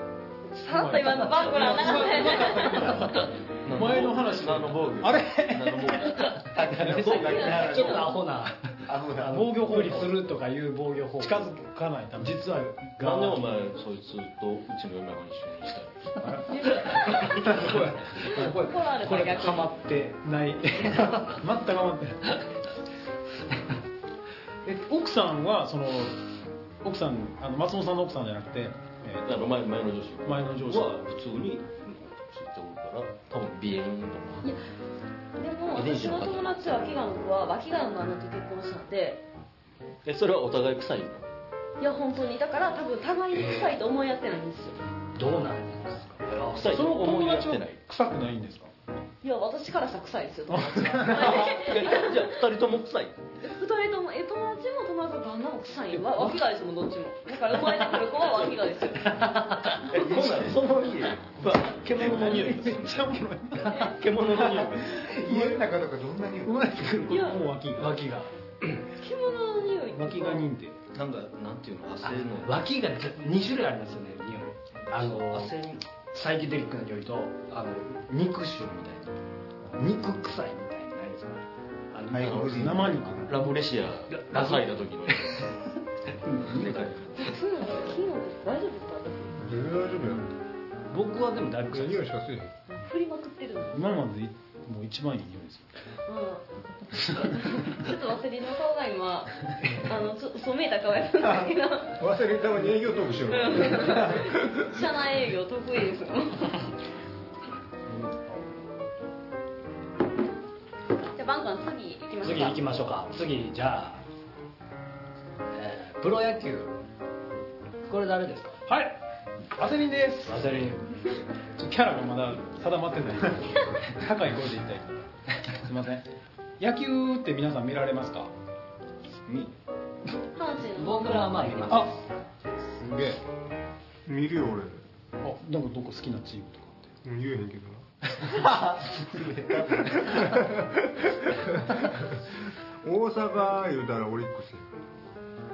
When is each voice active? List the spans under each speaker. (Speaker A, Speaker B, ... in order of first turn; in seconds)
Speaker A: 0.5-3.2, 6.9-8.1, 16.5-19.7, 35.4-39.2, 41.8-44.8, 49.2-52.3, 53.4-59.3, 67.1-67.5, 69.0-70.5, 87.1-89.5, 92.7-94.0, 96.1-96.5, 97.1-102.1, 103.3-106.7, 111.0-112.8, 130.4-131.6
Speaker B: 0.7-6.2, 9.4-10.1, 11.2-12.6, 20.2-22.4, 24.6-26.2, 26.8-29.4, 30.2-31.0, 46.7-48.7, 50.5-51.3, 55.9-56.4, 62.0-63.9, 65.3-65.6, 66.7-68.0, 69.9-70.8, 82.5-83.5, 86.4-86.8, 90.0-90.3, 93.7-95.7, 107.9-108.4, 118.7-119.0, 119.6-120.5, 121.6-126.1, 126.6-128.3, 131.7-131.9, 132.6-133.2, 135.2-136.9
Speaker C: 1.5-2.0, 3.6-8.0, 13.0-16.2, 17.1-18.2, 29.2-34.5, 35.7-36.8, 40.0-41.3, 46.5-47.8, 51.0-53.2, 58.2-58.6, 59.9-65.0, 70.9-72.6, 74.8-75.8, 82.2-82.6, 83.3-85.6, 86.4-87.4, 129.2-129.5
Speaker D: 6.5-8.1, 8.9-9.5, 64.9-67.1, 82.1-83.3
Speaker E: 7.4-11.6, 12.2-13.5, 16.2-16.5, 18.3-20.3, 20.8-21.4, 45.2-46.8, 59.0-59.8, 61.9-62.7, 66.5-67.1, 67.8-68.3, 72.0-75.6, 76.1-79.1, 79.8-82.9, 84.1-85.5, 90.9-92.1, 112.2-114.0, 115.5-116.8, 117.8-118.6, 120.2-120.9, 130.8-132.0
Speaker F: 89.4-90.2, 91.7-92.5, 102.0-104.8, 134.1-134.8, 137.0-137.9, 140.0-142.0, 142.8-144.7